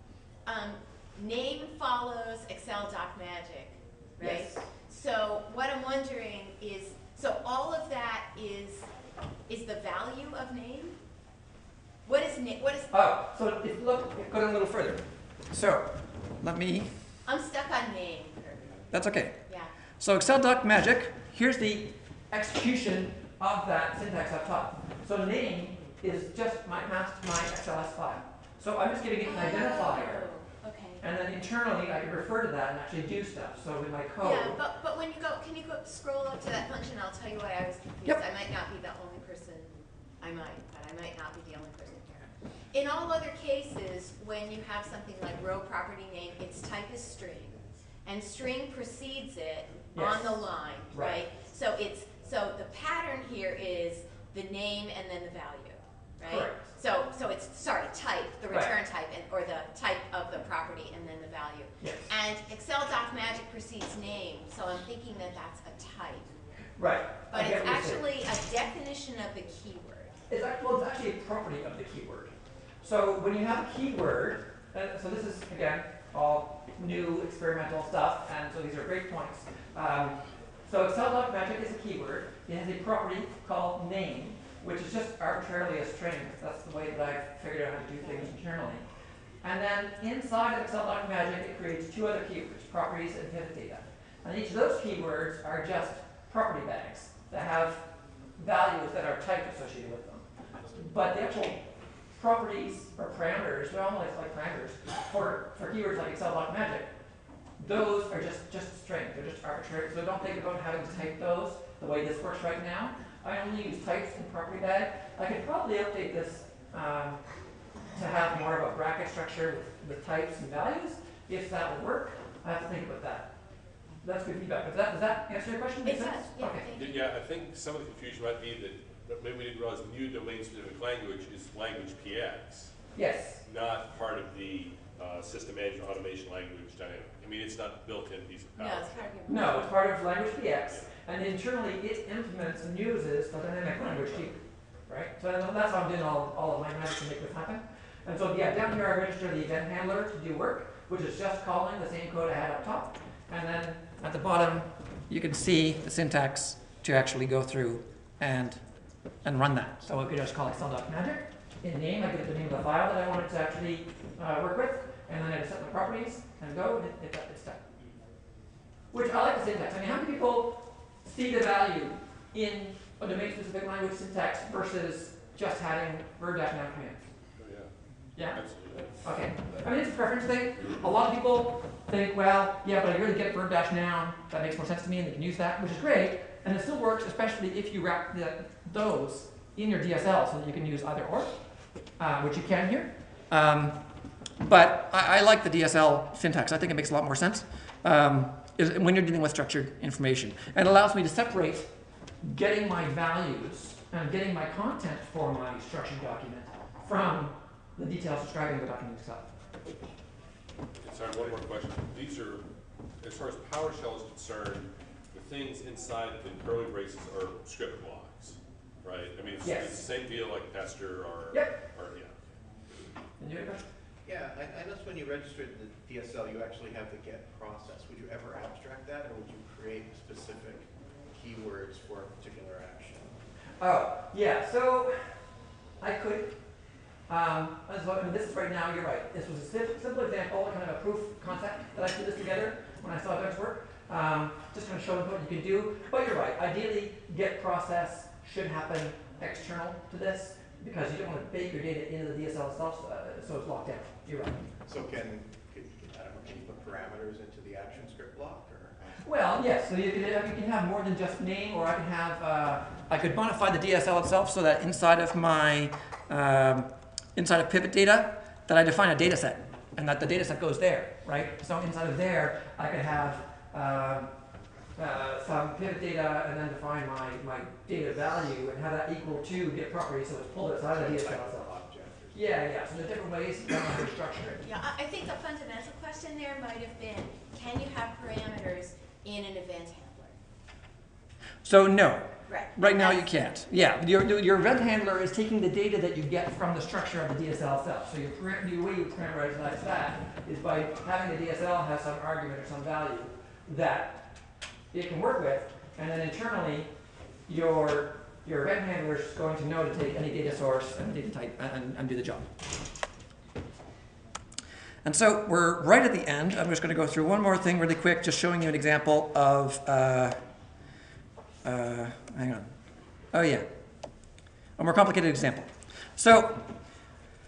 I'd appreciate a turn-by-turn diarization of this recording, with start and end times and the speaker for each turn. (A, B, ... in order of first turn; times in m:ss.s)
0:00.4-0:08.9 A
0:04.2-0:04.6 B
0:09.5-0:11.0 A
0:12.0-0:12.9 A
0:12.9-0:16.9 B
0:17.2-0:18.8 A
0:18.9-0:19.4 B
0:19.5-0:19.7 A
0:20.0-0:30.3 B
0:29.2-0:31.0 A
0:31.0-0:34.6 B
0:34.2-1:06.3 A
0:49.9-0:51.2 B
0:56.2-0:56.7 B
0:58.5-0:58.7 B
1:01.8-1:02.1 B
1:06.8-1:08.0 B
1:07.3-1:10.2 A
1:10.3-1:28.8 B
1:29.4-1:37.8 B
1:38.4-1:46.9 B
1:47.6-1:57.2 B
1:57.9-2:03.3 B
2:04.0-2:06.7 B
2:05.8-2:07.1 A
2:06.7-2:12.7 C
2:12.9-2:13.4 B
2:13.4-2:19.1 C
2:18.6-2:19.7 A
2:19.2-2:38.6 B
2:39.2-2:47.6 B
2:48.9-2:57.1 B
2:57.4-2:57.7 C
2:58.2-2:58.4 B
2:58.3-2:59.6 C
2:59.0-3:11.4 B
3:12.0-3:13.8 B
3:14.4-3:21.7 B
3:22.2-3:29.3 B
3:30.8-3:32.4 C
3:33.0-3:42.2 C
3:39.4-3:39.8 B
3:41.3-3:41.6 B
3:43.2-3:43.6 B
3:44.0-3:53.2 D
3:53.6-3:55.2 B
3:55.8-3:56.3 B
3:57.1-4:14.5 B
4:14.6-4:19.1 D
4:19.0-4:34.1 B
4:34.8-4:41.5 B
4:40.7-4:42.2 D
4:42.1-4:44.4 B
4:44.4-4:50.2 A
4:51.4-5:04.2 B
4:52.3-4:53.1 A
5:04.7-5:06.7 B
5:07.3-5:12.3 B
5:14.8-5:20.2 B
5:21.4-5:22.5 B
5:23.1-5:23.5 B
5:24.6-5:26.5 B